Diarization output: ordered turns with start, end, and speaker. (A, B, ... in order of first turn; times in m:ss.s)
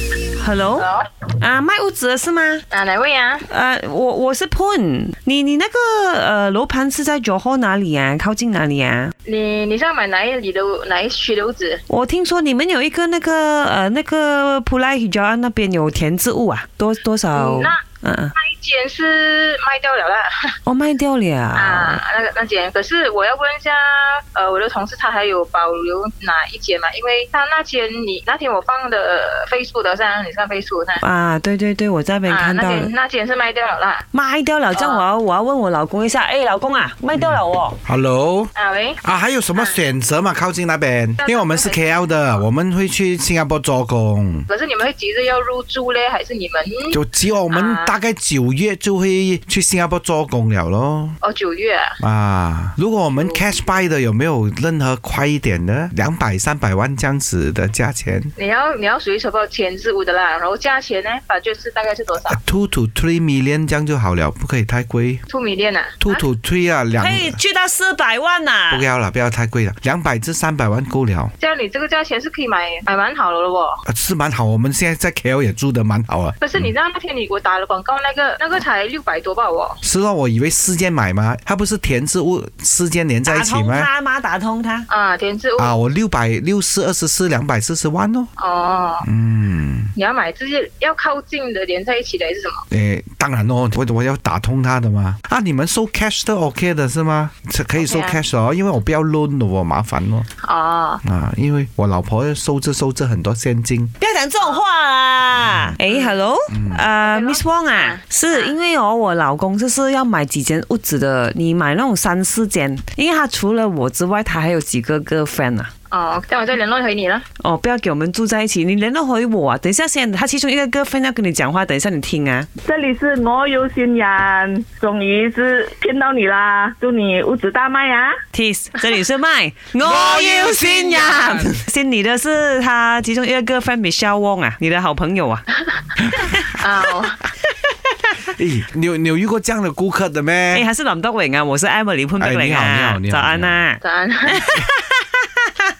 0:00.4-0:02.6 A
0:00.8-0:01.1 B
0:02.7-0:03.4 B
0:03.5-0:09.1 A
0:09.3-0:11.8 B
0:11.9-0:18.3 A
0:17.3-0:17.8 B
0:18.4-0:20.5 B
0:20.7-0:22.0 A
0:21.6-0:31.0 B
0:31.0-0:32.9 A
0:32.3-0:34.0 B
0:34.1-0:37.8 A
0:34.8-0:35.0 B
0:37.2-0:44.5 C
0:38.6-0:39.0 B
0:41.2-0:42.4 B
0:44.5-0:47.0 B
0:46.9-0:51.2 C
0:47.5-0:47.9 B
0:51.2-0:51.9 B
0:52.0-0:58.3 C
0:53.1-0:53.6 B
0:58.4-1:02.4 B
1:02.3-1:05.2 C
1:05.3-1:06.2 B
1:06.0-1:07.4 C
1:07.0-1:08.8 A
1:08.7-1:11.3 C
1:11.4-1:13.8 B
1:13.9-1:16.7 C
1:16.4-1:19.8 B
1:19.8-1:23.9 C
1:23.3-1:24.9 A
1:24.9-1:25.7 B
1:25.6-1:28.3 C
1:28.4-1:29.1 B
1:29.0-1:29.9 C
1:30.0-1:32.6 B
1:32.7-1:40.3 C
1:37.8-1:38.2 B
1:40.4-1:41.0 B
1:41.0-1:43.9 C
1:44.0-1:55.7 A
1:45.4-1:45.8 C
1:45.9-1:46.2 B
1:46.5-1:46.8 C
1:47.0-1:48.6 B
1:55.9-1:57.2 B
1:57.4-2:02.5 A
2:02.6-2:08.2 D
2:08.3-2:15.5 A
2:09.8-2:11.5 C
2:16.5-2:17.2 B
2:18.2-2:20.7 C
2:20.5-2:25.5 A
2:22.2-2:23.6 C
2:23.8-2:24.5 B